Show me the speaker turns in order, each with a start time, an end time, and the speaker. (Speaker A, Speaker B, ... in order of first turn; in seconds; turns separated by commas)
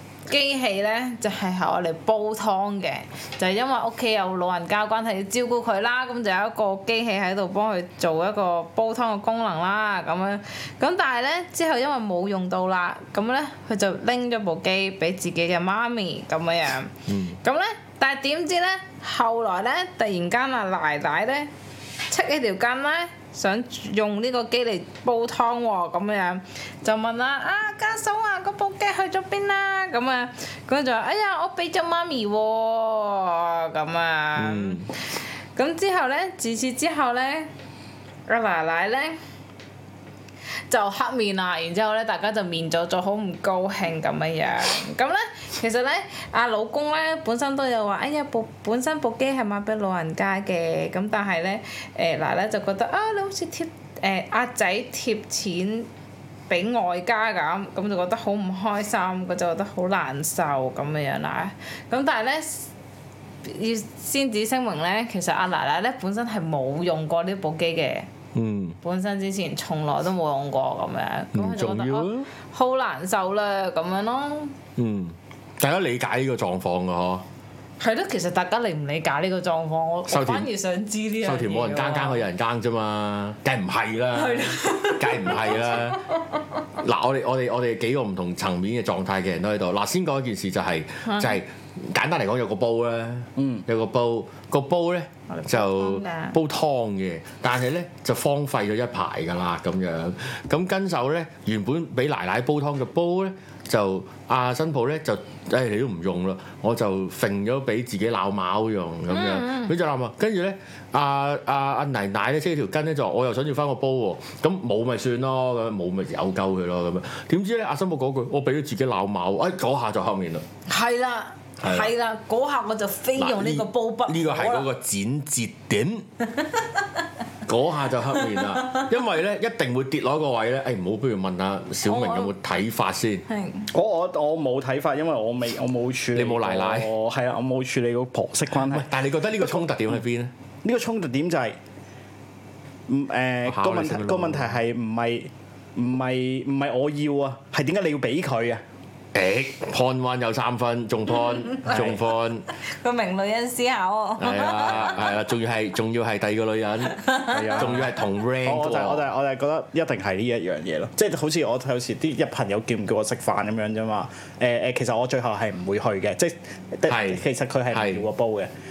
Speaker A: 0.3-21.5, Speaker B: 17.1-17.4, Speaker A: 22.1-34.9, Speaker B: 34.4-34.9, Speaker A: 35.5-37.5, Speaker A: 38.3-39.2, Speaker A: 40.7-55.9, Speaker A: 56.5-62.7, Speaker A: 63.4-68.1, Speaker B: 68.3-68.8, Speaker A: 68.8-74.5, Speaker B: 71.3-72.3, Speaker B: 74.8-77.2, Speaker A: 77.8-82.2, Speaker B: 80.1-80.5, Speaker B: 81.2-86.0, Speaker A: 84.1-86.0, Speaker B: 86.8-120.4, Speaker A: 91.0-91.3, Speaker C: 93.4-93.6, Speaker A: 95.3-96.4, Speaker A: 109.1-109.7, Speaker A: 120.7-124.7, Speaker B: 121.6-121.9, Speaker B: 123.2-126.1, Speaker B: 127.5-133.2, Speaker A: 131.8-132.3, Speaker A: 133.3-133.7, Speaker C: 133.7-138.9, Speaker B: 136.1-136.9, Speaker B: 138.5-140.3, Speaker C: 140.6-141.6, Speaker C: 142.9-148.6, Speaker B: 143.4-144.6, Speaker B: 149.1-152.4, Speaker C: 151.7-152.0, Speaker A: 152.6-155.1, Speaker B: 154.2-159.1, Speaker A: 156.9-157.6, Speaker C: 157.3-157.9, Speaker C: 158.4-168.5, Speaker B: 166.9-168.1